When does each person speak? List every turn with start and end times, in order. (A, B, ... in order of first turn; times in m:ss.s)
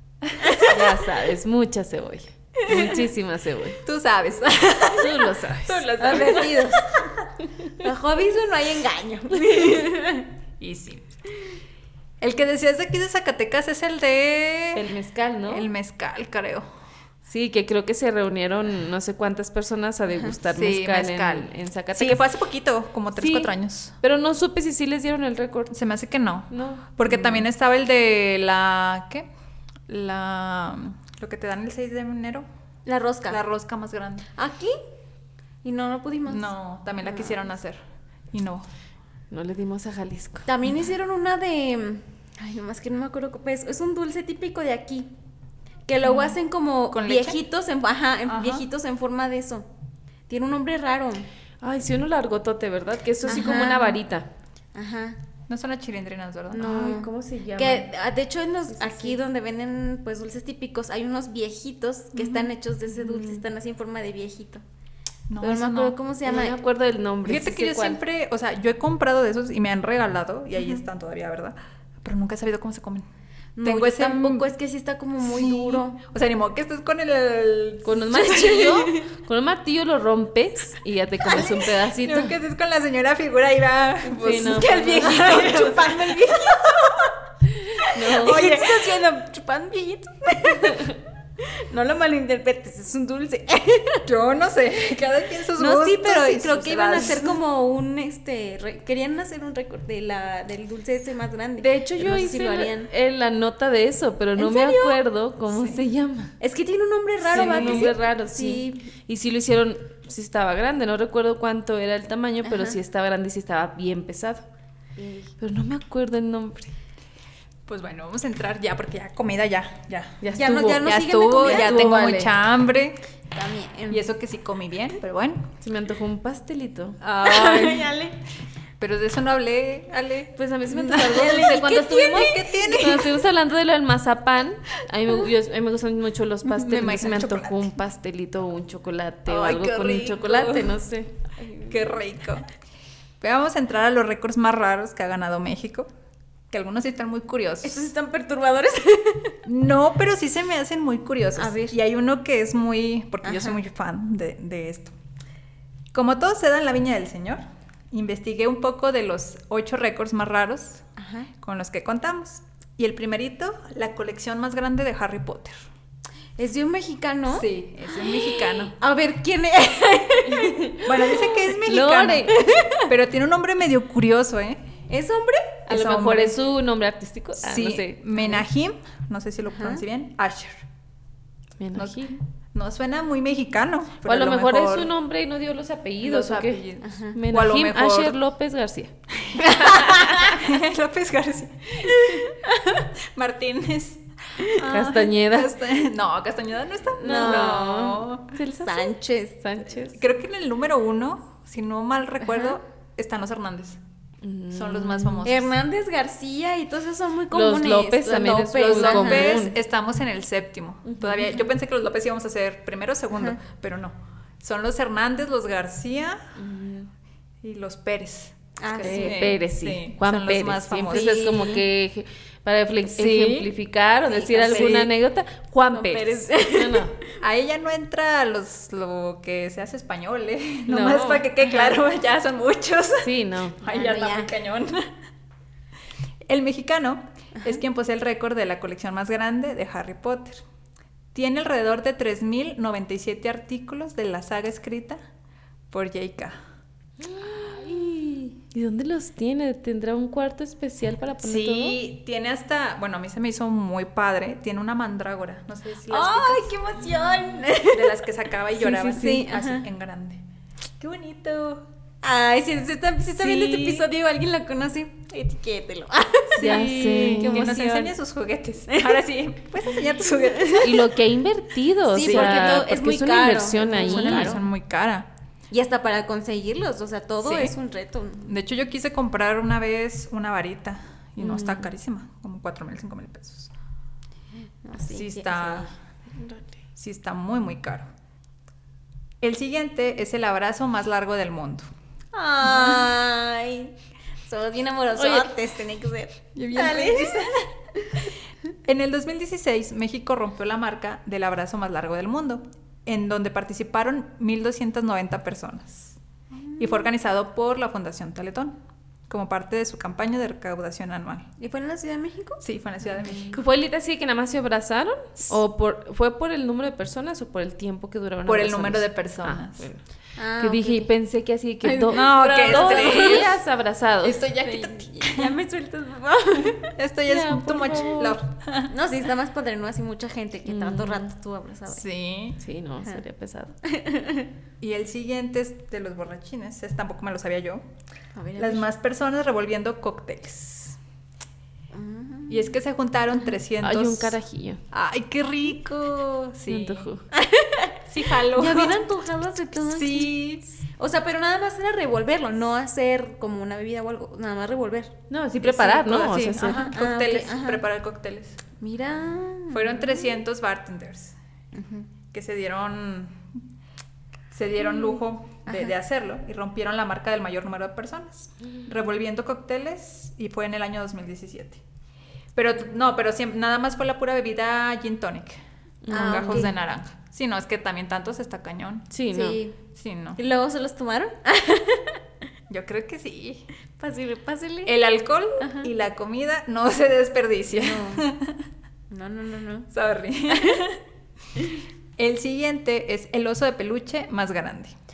0:00.6-0:03.8 A
0:03.8-0:07.0 B
0:04.9-0:06.2 A
0:06.0-0:07.0 C
0:07.8-0:10.3 C
0:10.6-0:11.0 B
0:12.2-0:14.9 B
0:14.7-0:15.7 A
0:15.5-0:16.7 B
0:17.3-0:22.2 A
0:20.5-0:24.0 B
0:23.1-0:25.7 A
0:25.7-0:29.3 B
0:26.5-0:27.3 A
0:29.9-0:32.4 B
0:32.8-0:33.4 C
0:33.3-0:34.2 B
0:34.4-0:34.8 C
0:35.6-0:36.5 C
0:36.3-0:37.8 B
0:37.0-0:37.4 C
0:38.3-0:38.7 B
0:39.3-0:40.5 A
0:40.4-0:45.1 C
0:45.9-0:49.6 C
0:46.0-0:46.3 B
0:46.9-0:47.4 B
0:48.3-0:48.6 B
0:50.3-0:51.3 C
0:51.6-0:54.3 A
0:53.2-0:54.0 C
0:54.7-0:55.2 C
0:55.5-0:56.8 B
0:56.5-1:04.6 C
0:56.6-0:57.9 A
0:58.7-0:59.2 A
1:02.1-1:02.5 B
1:03.0-1:03.4 A
1:05.3-1:06.0 B
1:05.4-1:06.6 C
1:06.2-1:08.0 A
1:07.2-1:13.0 B
1:13.6-1:16.0 C
1:13.6-1:14.5 B
1:15.2-1:18.7 B
1:17.8-1:22.4 A
1:18.1-1:19.1 C
1:22.0-1:26.8 B
1:24.2-1:25.2 A
1:24.2-1:27.1 C
1:27.7-1:34.0 C
1:27.9-1:28.6 A
1:28.2-1:28.9 B
1:30.7-1:30.9 A
1:34.0-1:37.4 B
1:35.6-1:42.9 C
1:41.6-1:46.3 A
1:44.4-1:45.0 C
1:45.5-1:45.8 B
1:46.4-1:48.8 C
1:47.3-1:47.9 B
1:47.3-1:54.4 A
1:52.4-1:52.8 C
1:55.0-1:55.3 C
1:55.4-1:56.7 A
1:57.6-2:00.2 B
2:00.2-2:02.3 A
2:00.3-2:02.0 C
2:00.8-2:03.0 B
2:03.3-2:04.0 C
2:03.9-2:05.5 B
2:05.6-2:07.0 A
2:07.0-2:08.0 B
2:07.2-2:08.2 C
2:08.8-2:13.1 B
2:10.4-2:21.1 A
2:10.8-2:13.1 C
2:16.5-2:17.7 B
2:19.3-2:20.7 B
2:19.8-2:20.6 C
2:21.4-2:22.0 C
2:21.7-2:22.4 B
2:23.2-2:25.9 B
2:26.5-2:27.9 B
2:27.6-2:29.4 C
2:29.4-2:34.9 B
2:31.4-2:31.7 C
2:33.2-2:33.6 C
2:35.9-2:40.8 B
2:41.0-2:41.3 C
2:41.4-2:45.6 B
2:46.4-2:51.6 C
2:47.3-2:48.7 B
2:50.2-2:50.8 A
2:50.8-2:54.6 B
2:51.6-2:52.5 A
2:52.2-2:52.9 C
2:54.9-2:55.6 C
2:55.7-2:56.4 B
2:55.7-2:58.4 A
2:57.4-3:00.6 B
2:59.5-2:59.8 C
3:01.6-3:02.2 A
3:01.7-3:04.9 B
3:04.0-3:08.9 A
3:06.0-3:08.2 B
3:06.8-3:07.2 C
3:09.2-3:12.4 B
3:09.6-3:10.0 C
3:09.6-3:10.3 A
3:11.9-3:12.9 C
3:13.0-3:18.3 B
3:14.6-3:15.5 A
3:17.0-3:19.4 C
3:17.0-3:20.0 A
3:19.9-3:23.8 B
3:22.3-3:22.5 C
3:24.2-3:25.3 A
3:24.5-3:25.5 B
3:25.2-3:29.4 C
3:27.3-3:29.6 A
3:28.6-3:36.2 B
3:30.8-3:31.4 A
3:33.1-3:33.4 C
3:36.4-3:36.9 A
3:37.4-3:41.3 B
3:38.6-3:39.3 C
3:38.8-3:46.9 A
3:40.9-3:41.6 C
3:43.0-3:43.5 B
3:44.1-3:44.8 C
3:44.4-3:44.9 B
3:45.7-3:46.9 C
3:47.2-3:54.9 B
3:50.7-3:51.3 A
3:51.5-3:51.8 C
3:53.0-3:53.6 A
3:53.6-3:54.3 C
3:56.3-4:00.4 B
4:01.1-4:05.0 B
4:05.7-4:06.4 B
4:07.0-4:11.8 A
4:11.2-4:16.5 B
4:15.9-4:18.0 C
4:17.7-4:20.2 B
4:18.6-4:19.2 A
4:18.7-4:19.6 C
4:20.8-4:21.6 B
4:22.0-4:27.9 C
4:23.2-4:23.8 B
4:26.3-4:30.8 B
4:26.4-4:27.6 A
4:28.7-4:29.0 C
4:30.3-4:30.7 C
4:30.6-4:34.4 A
4:31.9-4:34.4 C
4:32.0-4:32.7 B
4:33.8-4:35.1 B
4:35.5-4:38.3 C
4:37.2-4:37.5 B
4:38.2-4:43.5 B
4:41.2-4:41.6 A
4:44.6-4:45.7 C
4:44.9-4:45.7 B
4:46.8-4:47.8 B
4:49.2-4:51.7 B
4:52.1-4:53.7 C
4:52.4-4:52.9 B
4:54.2-4:57.9 C
4:55.0-4:55.3 A
4:56.4-4:57.4 B
4:58.6-5:06.0 B
5:06.3-5:06.9 C
5:06.6-5:08.6 B
5:09.1-5:11.3 B
5:11.4-5:13.4 C
5:12.4-5:13.4 B
5:13.3-5:19.8 A
5:18.2-5:19.6 B
5:20.2-5:20.9 C
5:20.4-5:24.2 A
5:21.6-5:23.3 C
5:21.9-5:23.4 B
5:24.0-5:25.3 B
5:24.4-5:26.8 C
5:26.8-5:28.7 B
5:27.1-5:28.2 A
5:28.7-5:31.8 C
5:30.4-5:31.1 A
5:31.7-5:32.4 B
5:32.4-5:33.5 A
5:33.6-5:34.3 C
5:34.6-5:37.6 B
5:38.1-5:38.7 C
5:38.4-5:40.8 B
5:41.7-5:42.5 C
5:42.3-5:44.2 B
5:43.6-5:44.6 A
5:44.7-5:46.9 B
5:46.5-5:47.0 A
5:47.1-5:55.0 C
5:47.9-5:48.8 B
5:49.6-5:50.4 B
5:55.1-5:56.7 A
5:55.4-5:58.4 B
5:56.4-5:57.6 C
5:58.6-6:00.2 C
5:59.5-6:01.2 B
6:01.5-6:01.9 C
6:02.1-6:03.3 B
6:04.3-6:11.6 B
6:04.7-6:04.9 C
6:05.4-6:05.7 C
6:12.3-6:15.4 B
6:15.8-6:16.5 A
6:15.9-6:16.5 C
6:15.9-6:18.9 B
6:18.9-6:19.4 A
6:19.1-6:19.6 C
6:19.7-6:20.2 B
6:20.2-6:22.0 C
6:22.5-6:23.5 B
6:23.8-6:24.7 C
6:24.6-6:28.4 B
6:25.4-6:25.7 C
6:27.6-6:28.1 C
6:28.9-6:29.7 C
6:29.7-6:30.8 B
6:30.3-6:30.6 C
6:32.0-6:34.8 B